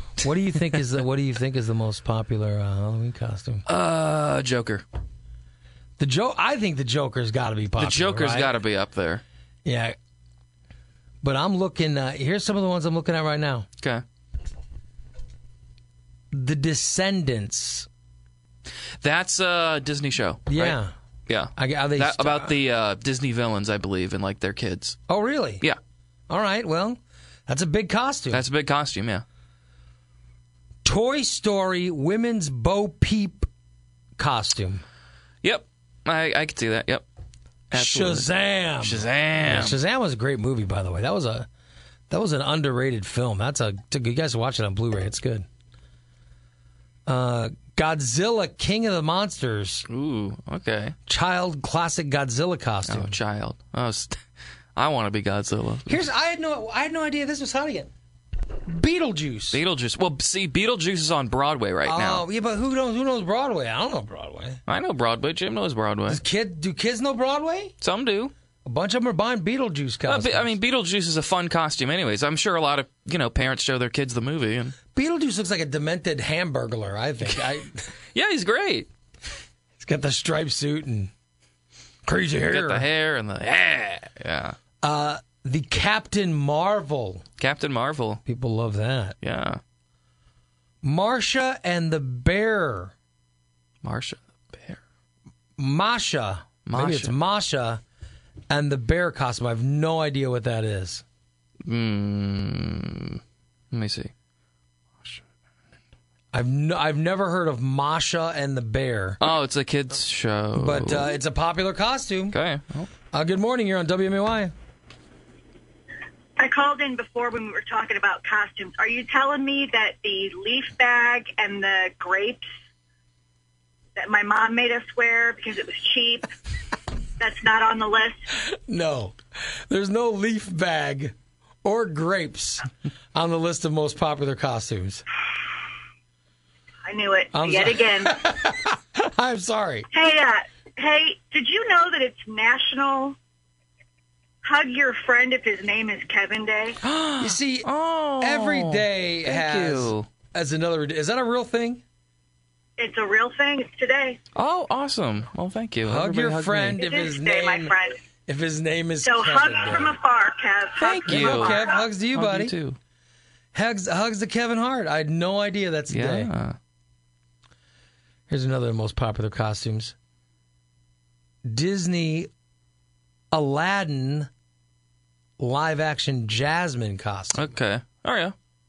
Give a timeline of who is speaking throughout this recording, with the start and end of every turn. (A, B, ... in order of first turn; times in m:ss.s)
0:00.2-0:03.6 A
0:03.7-0:04.8 B
0:06.0-0:08.5 A
0:07.8-0:09.2 B
0:09.6-0:10.0 A
0:11.2-0:13.7 A
0:16.3-0:17.9 A
0:19.0-0:25.0 B
0:20.5-0:20.9 A
0:21.6-0:22.5 A
0:25.1-0:25.6 A
0:26.3-0:28.4 A
0:28.3-0:29.2 B
0:30.8-0:33.5 A
0:34.2-0:34.8 A
0:35.4-0:37.0 B
0:37.7-0:39.8 B
0:37.7-0:41.5 A
0:42.1-0:45.5 A
0:47.1-0:49.9 A
0:49.9-0:51.0 B
0:51.1-0:53.2 A
0:52.9-0:54.2 B
0:54.8-0:56.0 B
0:55.9-0:57.9 A
0:58.7-0:59.6 A
0:59.5-1:02.2 B
1:01.8-1:04.6 A
1:04.7-1:06.2 B
1:06.1-1:07.8 A
1:07.8-1:08.3 B
1:08.6-1:10.6 A
1:10.1-1:14.8 B
1:14.9-1:17.9 A
1:18.1-1:18.9 B
1:19.8-1:21.1 A
1:22.0-1:22.9 A
1:22.5-1:24.6 B
1:24.8-1:27.2 A
1:27.4-1:28.2 B
1:28.2-1:29.2 A
1:29.2-1:29.6 B
1:30.8-1:32.9 A
1:33.8-1:34.8 B
1:35.6-1:37.8 A
1:36.6-1:37.1 B
1:38.5-1:41.0 A
1:41.6-1:43.2 B
1:43.7-1:44.1 B
1:46.3-1:49.2 A
1:49.2-1:51.2 B
1:50.6-1:52.4 A
1:52.3-1:52.9 B
1:53.1-1:54.5 A
1:56.4-2:02.5 C
2:04.0-2:06.3 C
2:07.2-2:08.2 C
2:08.5-2:15.0 A
2:16.9-2:18.2 C
2:17.3-2:19.9 A
2:19.9-2:23.2 C
2:24.4-2:26.8 C
2:26.8-2:30.1 B
2:27.2-2:31.8 A
2:32.8-2:34.2 C
2:34.4-2:36.9 B
2:35.9-2:37.7 A
2:36.8-2:38.0 C
2:38.3-2:40.0 A
2:39.0-2:41.8 C
2:40.8-2:42.8 B
2:41.0-2:42.5 A
2:43.5-2:46.3 A
2:45.9-2:46.6 B
2:48.3-2:50.0 A
2:51.4-2:52.3 A
2:53.3-2:54.3 A
2:55.4-2:57.5 A
2:57.4-2:58.4 B